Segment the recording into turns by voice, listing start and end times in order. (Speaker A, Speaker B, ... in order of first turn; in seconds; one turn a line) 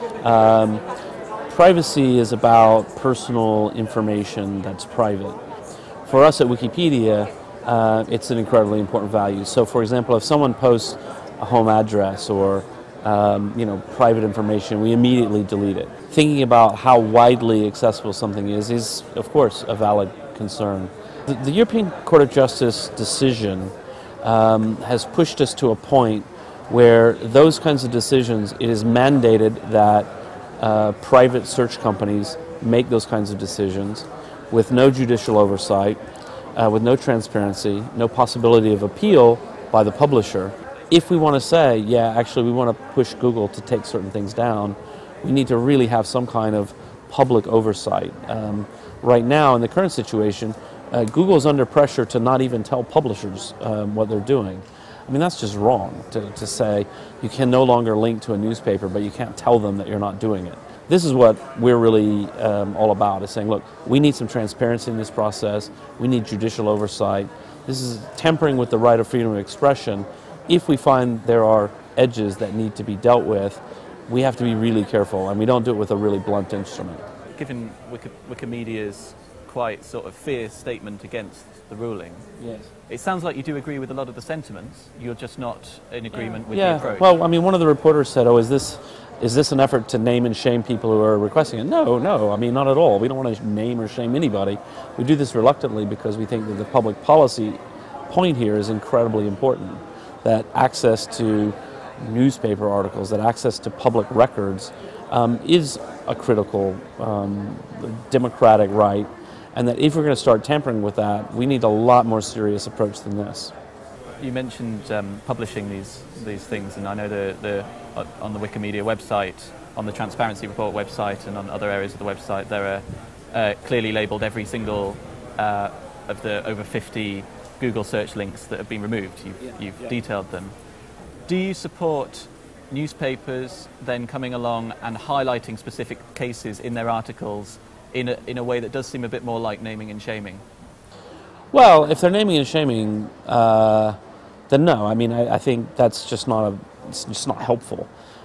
Speaker A: 0.2-0.8
Speaker A: 1.5-5.4
Speaker A: 6.1-30.1
Speaker A: 30.6-36.0
Speaker A: 36.6-77.0
Speaker B: 77.3-82.3
Speaker A: 82.4-82.7
Speaker B: 82.9-87.1
Speaker A: 86.5-97.6
Speaker A: 98.1-113.5
Speaker B: 114.2-130.5
Speaker B: 131.3-140.4
Speaker A: 141.5-144.0
Speaker A: 144.5-147.9